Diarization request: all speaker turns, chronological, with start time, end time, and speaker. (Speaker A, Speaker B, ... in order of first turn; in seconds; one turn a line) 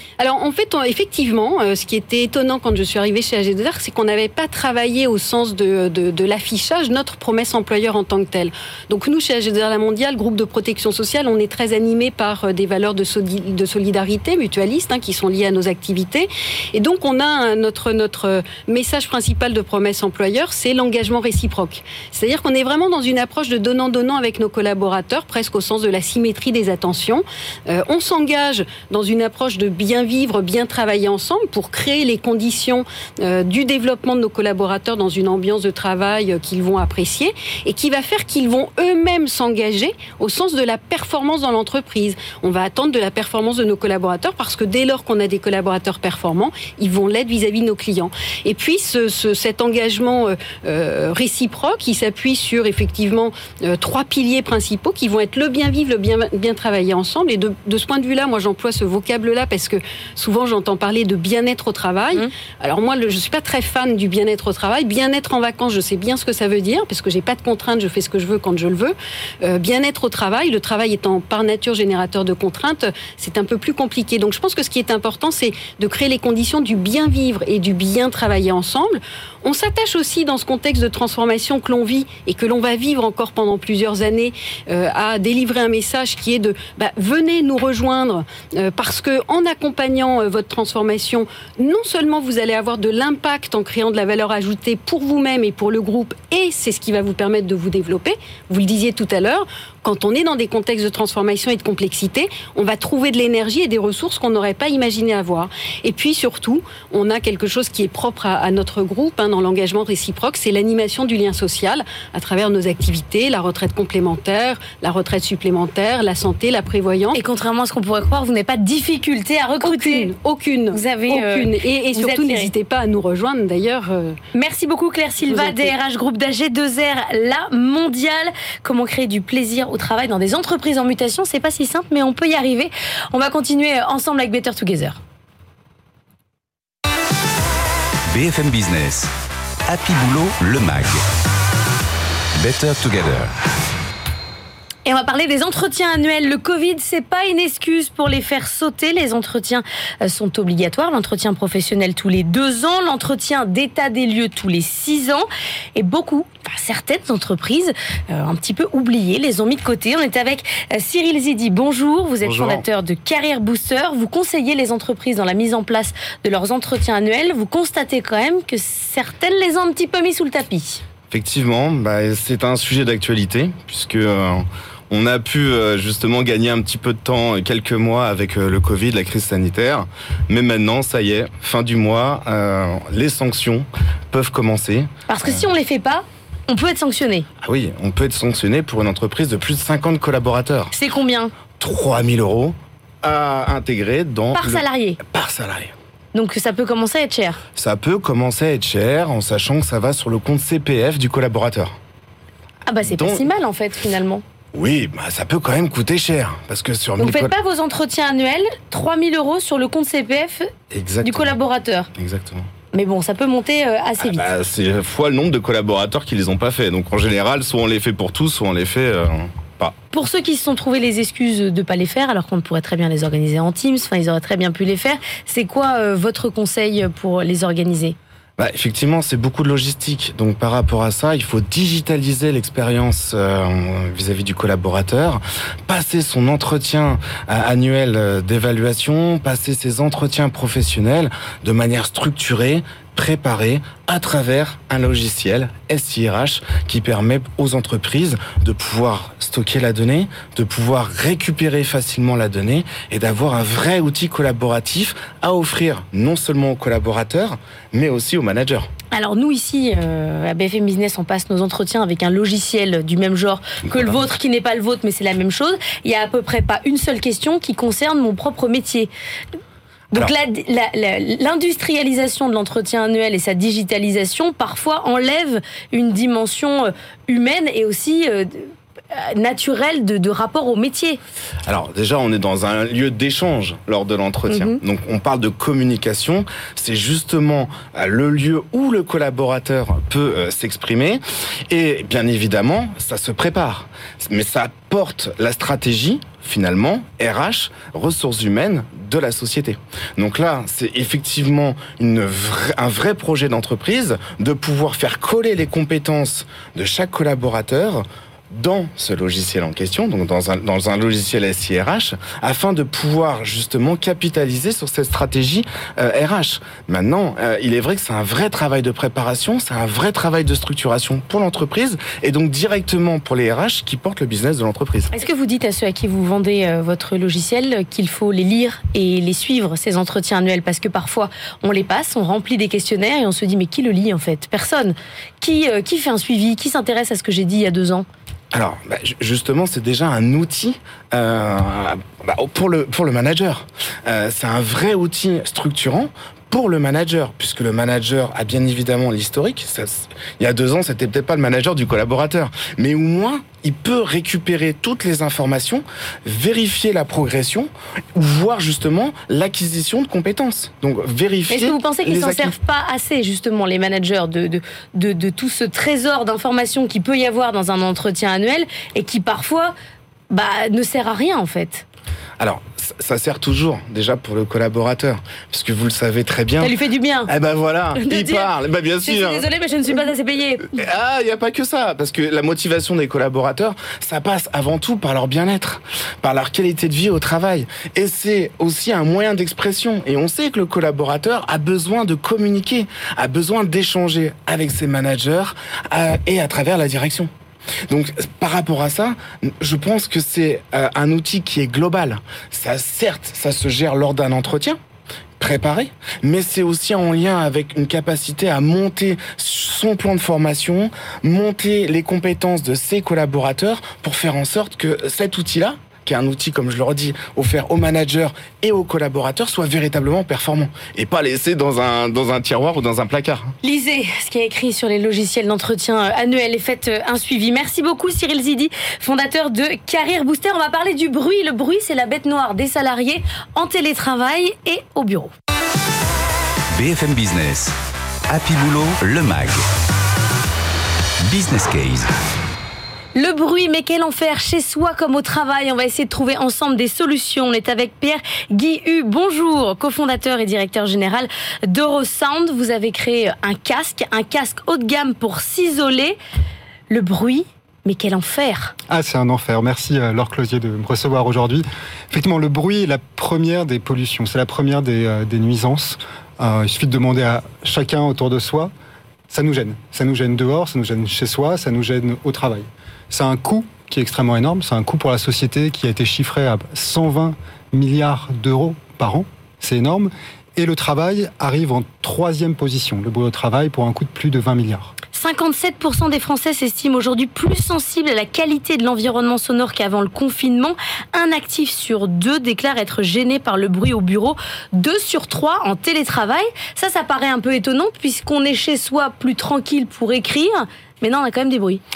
Speaker A: 0.2-117.2
Speaker B: 117.1-120.1
Speaker A: 119.6-124.2
Speaker B: 120.7-122.5
Speaker B: 124.3-135.0
Speaker A: 125.2-125.7
Speaker C: 138.1-139.1
Speaker C: 139.7-141.0
Speaker C: 142.4-143.3
Speaker B: 144.8-170.8
Speaker D: 162.2-162.6
Speaker D: 171.1-185.4
Speaker B: 185.1-187.3
Speaker D: 187.4-190.7
Speaker B: 190.7-191.3
Speaker D: 191.6-195.7
Speaker B: 194.3-195.0
Speaker B: 196.1-197.4
Speaker D: 197.6-201.8
Speaker B: 202.7-204.2
Speaker D: 202.8-203.3
Speaker D: 204.5-207.3
Speaker B: 207.0-210.5
Speaker D: 210.7-211.4
Speaker B: 211.0-211.9
Speaker D: 211.9-212.5
Speaker B: 212.7-214.3
Speaker D: 214.0-219.8
Speaker B: 219.9-228.0
Speaker D: 228.4-258.7
Speaker B: 258.9-268.9
Speaker D: 263.6-264.0
Speaker B: 269.9-281.0
Speaker D: 281.5-324.9
Speaker B: 284.3-284.6
Speaker B: 324.9-337.9
Speaker D: 338.3-362.3
Speaker B: 361.3-369.5
Speaker B: 370.1-371.6
Speaker D: 372.2-376.6
Speaker B: 376.4-377.1
Speaker D: 377.1-379.3
Speaker B: 377.8-378.3
Speaker B: 378.8-380.6
Speaker D: 380.5-397.1
Speaker D: 397.7-404.6
Speaker D: 405.2-423.3
Speaker B: 423.4-435.1
Speaker C: 436.6-437.5
Speaker C: 438.1-439.4
Speaker C: 441.1-441.9
Speaker B: 442.9-456.0
Speaker B: 456.7-458.6
Speaker E: 458.7-468.5
Speaker E: 469.1-484.7
Speaker B: 484.9-501.6